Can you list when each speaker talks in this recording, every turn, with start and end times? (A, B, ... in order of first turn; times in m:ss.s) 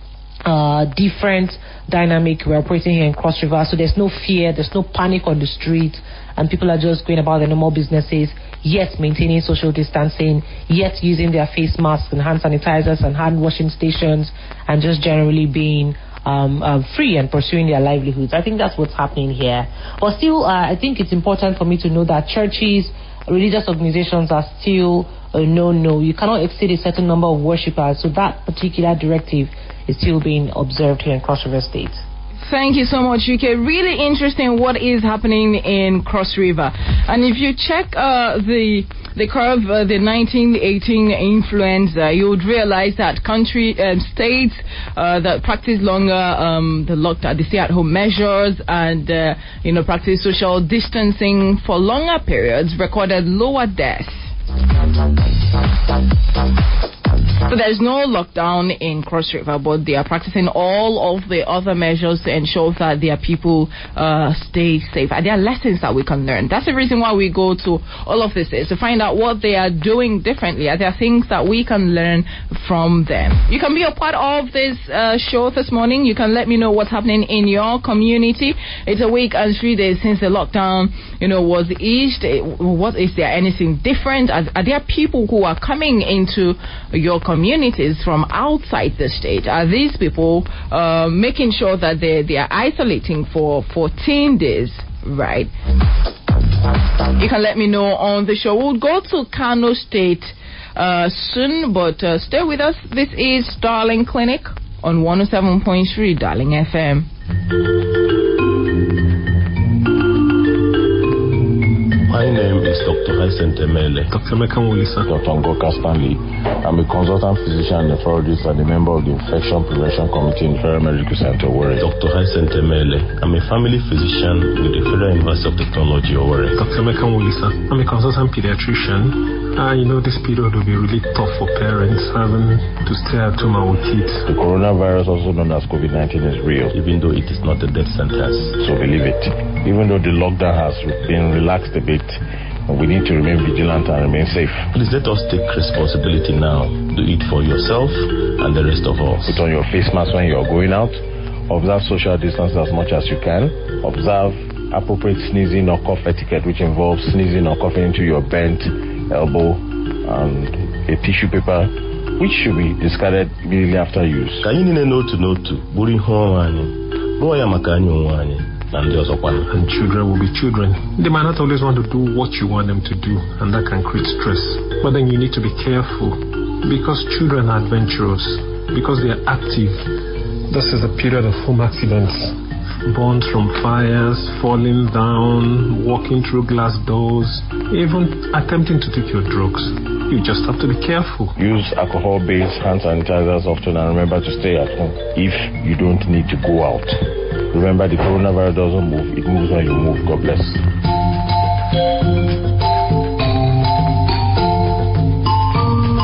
0:00.5-0:32.0 A
0:32.4-0:54.3 B
0:57.5-1:35.5 B
1:37.2-1:47.1 B
1:52.1-1:54.1 C
1:54.1-1:55.0 D
1:55.1-2:01.8 E
2:01.8-2:06.6 C
2:06.6-2:14.2 D
2:14.3-2:16.7 E
2:16.7-2:18.6 C
2:18.6-2:24.7 E
2:24.7-2:29.3 C
2:29.2-2:44.4 E
2:44.4-2:49.4 C
2:49.5-2:59.8 D
3:00.5-3:02.4 D
3:02.9-3:11.4 D
3:11.4-3:17.0 E
3:17.5-3:20.6 E